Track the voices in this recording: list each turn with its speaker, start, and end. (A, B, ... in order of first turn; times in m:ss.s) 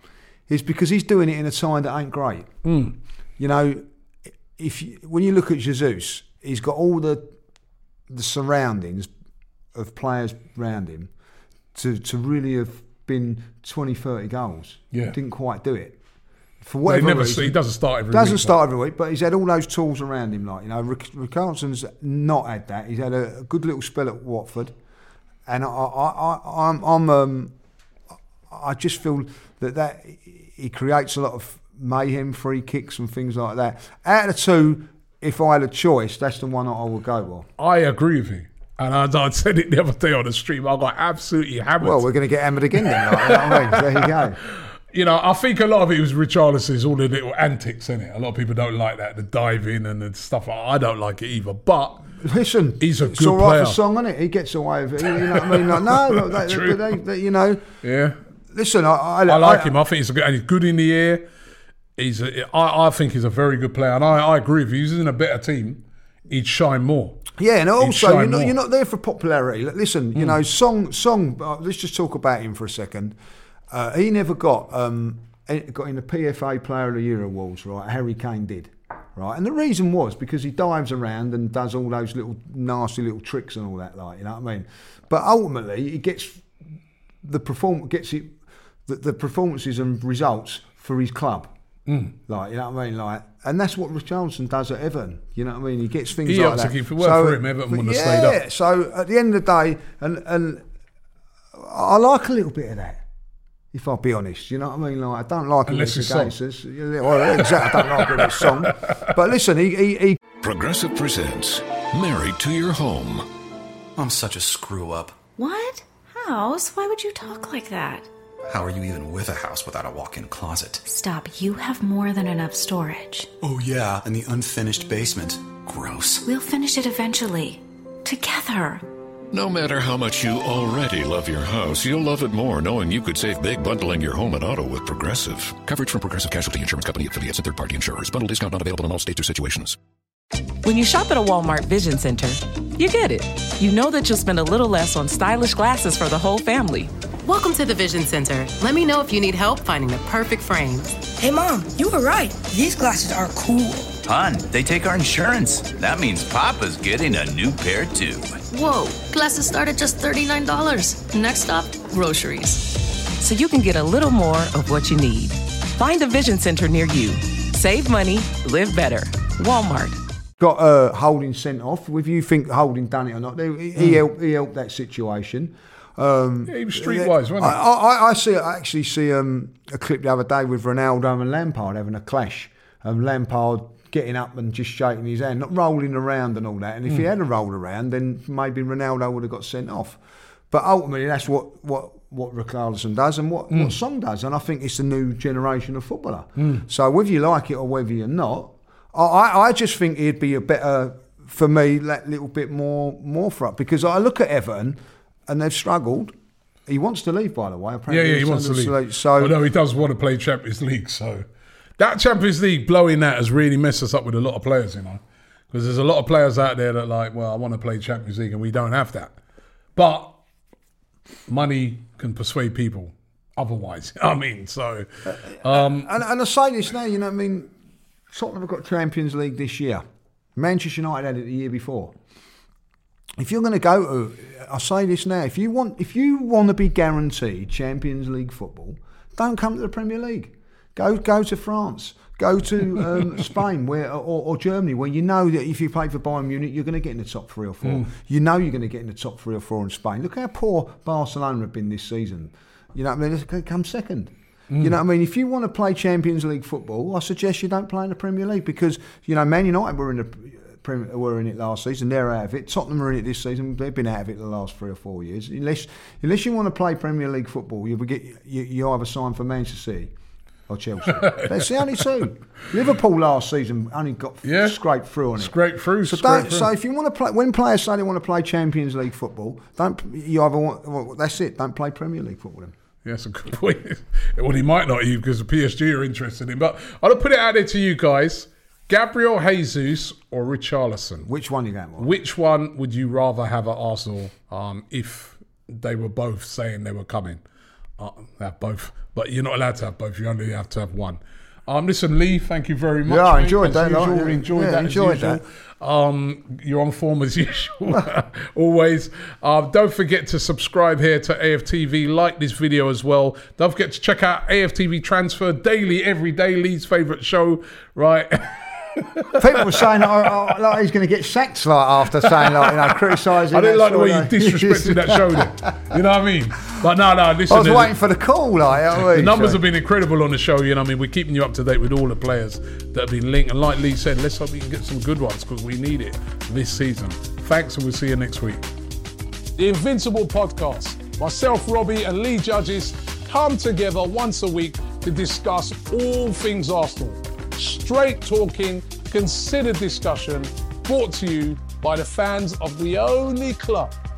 0:00.5-0:02.5 A
0:02.6-0:02.9 B
0:03.4-0:03.8 A
0:04.5-0:07.3 A
0:08.1-0:09.1 A
0:09.7-0:11.1 A
0:11.7-0:16.0 A
0:16.6-0:24.7 A
0:16.8-0:18.5 B
0:25.5-0:27.5 A
0:28.5-0:37.5 A
0:37.6-0:42.0 B
0:41.8-0:44.4 A
0:42.8-0:44.2 B
0:44.9-0:52.0 B
0:52.2-0:57.6 A
0:52.8-0:53.8 B
0:55.1-0:56.8 B
0:57.8-0:58.2 B
0:58.5-0:59.7 A
0:59.3-1:01.2 B
1:02.0-1:07.2 B
1:07.4-1:13.2 A
1:07.8-1:08.5 B
1:13.7-1:26.4 A
1:27.2-1:31.5 A
1:31.9-1:32.1 B
1:32.3-1:40.6 A
1:36.2-1:38.4 B
1:41.5-1:43.0 A
1:43.7-1:50.2 A
1:45.7-1:46.3 B
1:47.4-1:49.1 B
1:50.4-1:53.3 C
1:54.0-1:55.2 D
1:55.4-1:58.1 E
1:58.4-2:00.8 D
2:00.8-2:03.3 E
2:03.4-2:06.2 D
2:06.2-2:08.8 E
2:09.3-2:19.8 C
2:20.6-2:26.9 F
2:27.2-2:31.0 G
2:31.2-2:33.9 H
2:34.0-2:38.4 I
2:38.5-2:42.6 J
2:43.2-2:50.0 F
2:50.4-3:10.0 A
2:56.5-2:57.6 B
3:10.5-3:26.1 A
3:16.4-3:16.6 B
3:26.7-3:29.4 A
3:27.9-3:31.2 B
3:31.8-3:39.1 B
3:39.8-3:40.2 B
3:41.3-3:45.9 B
3:45.4-3:47.5 A
3:48.1-3:49.8 A
3:50.4-3:51.9 A
3:53.2-4:29.9 A
4:30.5-4:42.5 A
4:30.9-4:31.4 B
4:34.2-4:34.6 B
4:35.2-4:36.5 B
4:42.8-4:51.1 B
4:51.0-4:51.9 A
4:51.8-4:57.2 B
4:57.8-5:19.6 B
5:02.8-5:05.2 A
5:19.2-5:25.6 A
5:22.0-5:22.7 B
5:23.3-5:27.7 B
5:27.3-5:29.4 A
5:28.7-5:38.4 B
5:39.4-5:53.7 B